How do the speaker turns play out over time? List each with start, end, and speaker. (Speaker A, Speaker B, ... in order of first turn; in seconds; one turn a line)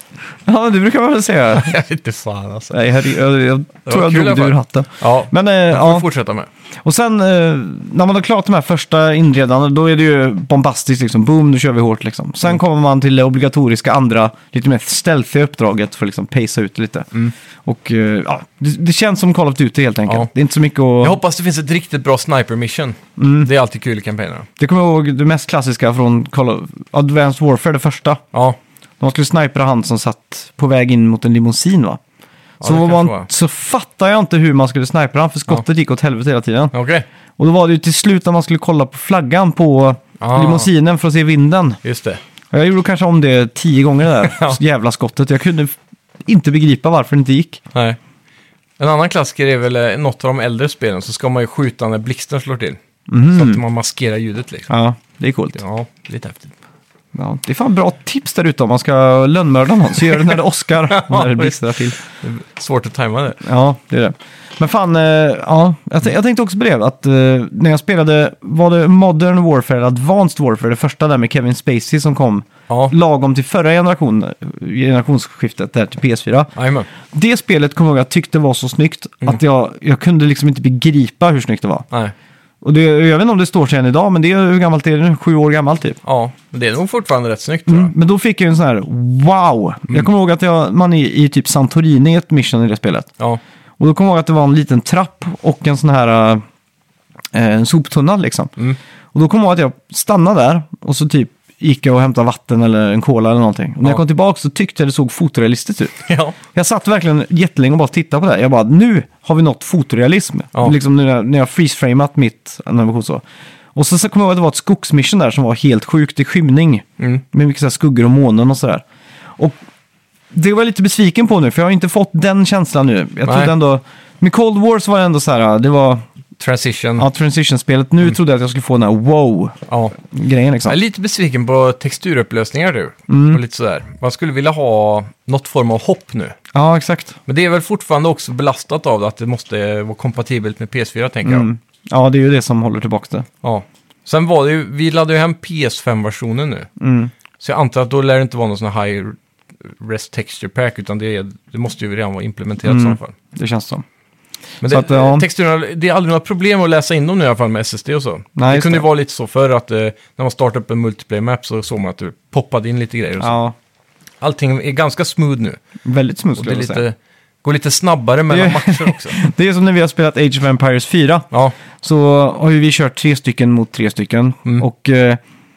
Speaker A: 0.5-1.8
Speaker B: 1.5-2.8
Speaker A: 2.7-6.0
Speaker B: 3.9-6.5
Speaker A: 6.8-17.1
Speaker A: 17.6-21.2
Speaker B: 21.0-24.5
Speaker A: 23.2-23.5
Speaker A: 24.6-28.2
Speaker B: 28.3-28.6
Speaker A: 29.0-32.0
Speaker B: 32.6-33.3
Speaker A: 32.6-36.7
Speaker B: 36.7-37.1
Speaker A: 37.4-41.8
Speaker B: 40.2-40.7
Speaker B: 41.8-42.2
Speaker A: 42.5-45.8
Speaker B: 44.2-44.6
Speaker A: 46.3-47.6
Speaker B: 48.8-52.8
Speaker A: 53.1-53.6
Speaker B: 53.3-54.7
Speaker A: 54.7-55.6
Speaker B: 55.5-56.5
Speaker A: 57.1-62.0
Speaker B: 60.9-63.4
Speaker A: 63.4-76.5
Speaker B: 72.7-72.9
Speaker B: 76.6-76.9
Speaker A: 77.1-81.9
Speaker A: 82.6-86.0
Speaker B: 86.0-87.9
Speaker A: 87.7-93.1
Speaker A: 93.8-96.4
Speaker A: 97.3-98.5
Speaker A: 99.1-113.2
Speaker B: 106.1-106.4
Speaker A: 113.8-118.8
Speaker A: 120.3-126.0
Speaker B: 123.3-123.5
Speaker B: 126.4-127.1
Speaker A: 127.0-130.8
Speaker B: 129.7-129.9
Speaker B: 130.7-136.4
Speaker A: 133.1-133.4
Speaker A: 136.5-137.2
Speaker B: 137.3-141.5
Speaker A: 141.2-143.3
Speaker B: 143.4-146.7
Speaker A: 146.8-147.1
Speaker B: 147.4-153.2
Speaker A: 152.7-153.8
Speaker B: 154.6-163.4
Speaker A: 154.7-155.2
Speaker A: 158.4-158.9
Speaker A: 163.2-163.5
Speaker B: 164.2-165.6
Speaker A: 165.8-166.8
Speaker B: 166.4-169.2
Speaker A: 168.3-171.3
Speaker A: 171.8-175.2